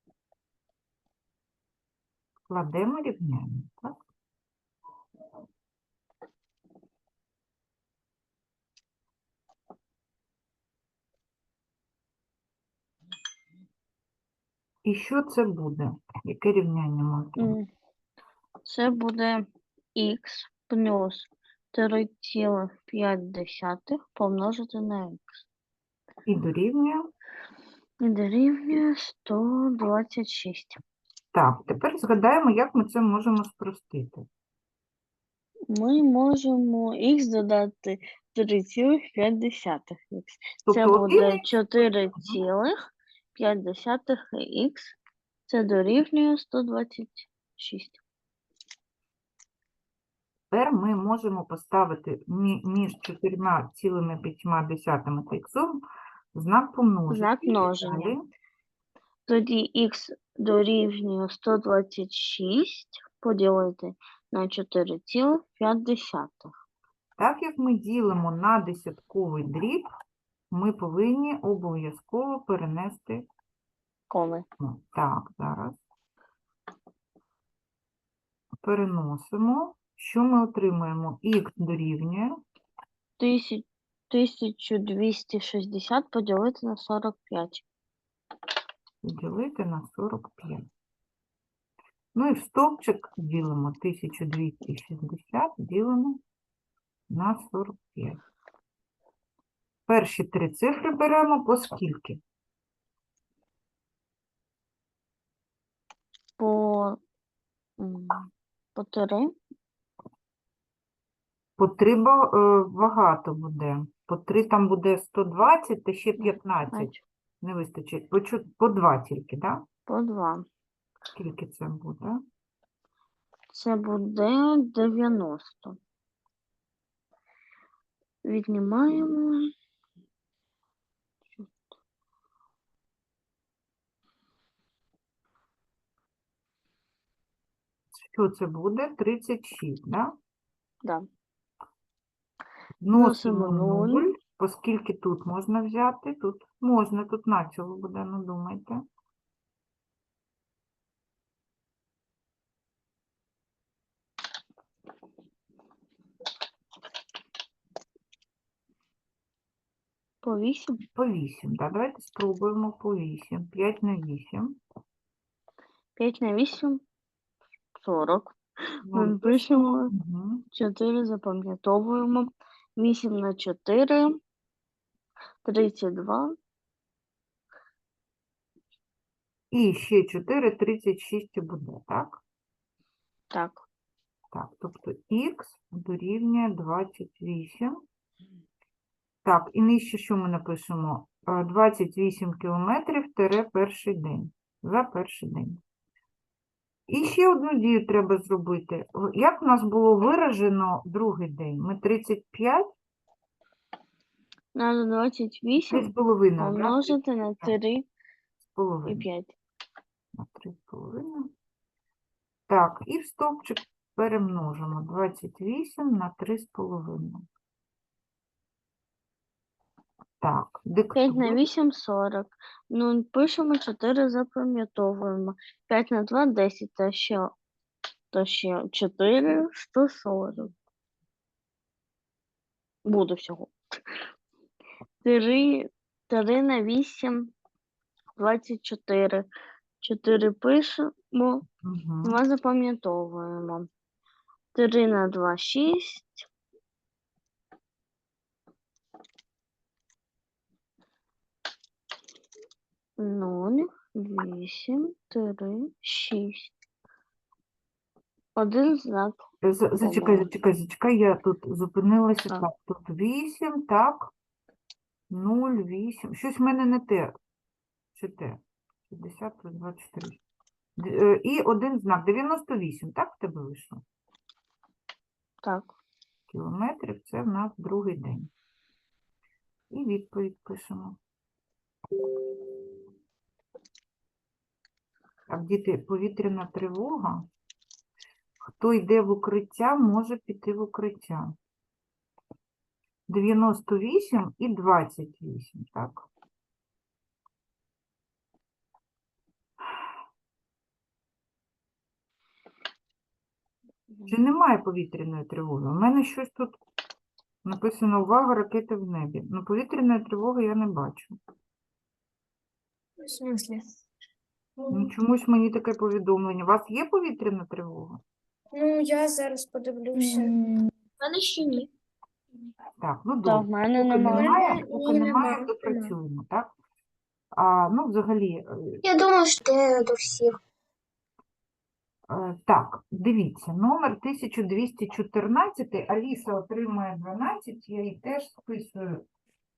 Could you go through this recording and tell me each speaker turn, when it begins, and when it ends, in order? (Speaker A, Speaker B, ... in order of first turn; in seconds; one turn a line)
Speaker A: 2.5-4.0
Speaker A: 14.8-17.6
Speaker B: 17.4-17.7
Speaker B: 18.6-25.4
Speaker A: 26.2-27.1
Speaker B: 28.0-30.8
Speaker A: 31.3-34.2
Speaker B: 35.7-42.8
Speaker A: 40.6-41.5
Speaker B: 43.3-44.9
Speaker B: 45.5-48.0
Speaker A: 50.5-58.3
Speaker B: 57.1-58.1
Speaker B: 59.3-66.5
Speaker A: 67.2-69.8
Speaker A: 70.5-73.2
Speaker B: 74.1-74.5
Speaker A: 74.6-75.8
Speaker A: 78.6-82.3
Speaker B: 83.2-87.6
Speaker A: 89.0-90.7
Speaker A: 92.1-96.2
Speaker A: 97.1-98.2
Speaker A: 99.9-102.2
Speaker B: 106.4-107.0
Speaker B: 107.8-109.3
Speaker A: 111.6-119.6
Speaker B: 116.2-117.0
Speaker B: 119.9-120.5
Speaker A: 121.1-122.2
Speaker B: 123.5-125.8
Speaker B: 128.2-129.5
Speaker A: 138.0-140.1
Speaker A: 142.8-148.8
Speaker B: 142.9-144.1
Speaker B: 160.2-160.8
Speaker A: 160.9-164.6
Speaker B: 165.9-166.8
Speaker B: 167.8-169.9
Speaker A: 168.9-170.4
Speaker B: 170.5-174.2
Speaker B: 175.4-176.4
Speaker A: 179.5-182.2
Speaker B: 183.3-183.7
Speaker A: 184.3-187.8
Speaker A: 189.2-195.6
Speaker A: 196.9-202.7
Speaker B: 204.5-207.8
Speaker A: 205.7-207.5
Speaker A: 208.4-209.1
Speaker B: 208.9-209.3
Speaker A: 210.1-211.3
Speaker A: 212.5-217.2
Speaker A: 220.2-221.4
Speaker B: 220.9-227.3
Speaker B: 228.1-230.5
Speaker B: 232.8-233.9
Speaker B: 235.0-237.3
Speaker B: 238.2-239.3
Speaker B: 239.8-241.4
Speaker A: 241.6-242.2
Speaker B: 242.0-243.7
Speaker B: 244.5-246.3
Speaker B: 253.0-256.5
Speaker B: 258.3-259.2
Speaker A: 259.4-264.1
Speaker B: 259.8-260.3
Speaker A: 265.1-267.1
Speaker A: 267.9-270.2
Speaker A: 270.8-273.8
Speaker B: 275.4-275.7
Speaker A: 276.3-278.3
Speaker A: 279.7-281.0
Speaker A: 285.3-287.3
Speaker A: 288.6-291.3
Speaker A: 293.1-296.1
Speaker A: 304.1-306.6
Speaker A: 307.4-311.1
Speaker A: 314.7-318.0
Speaker C: 319.9-321.7
Speaker D: 319.9-320.3
Speaker A: 322.8-326.5
Speaker B: 323.2-324.6
Speaker C: 324.1-325.9
Speaker A: 327.3-328.8
Speaker D: 328.8-330.4
Speaker A: 332.1-339.0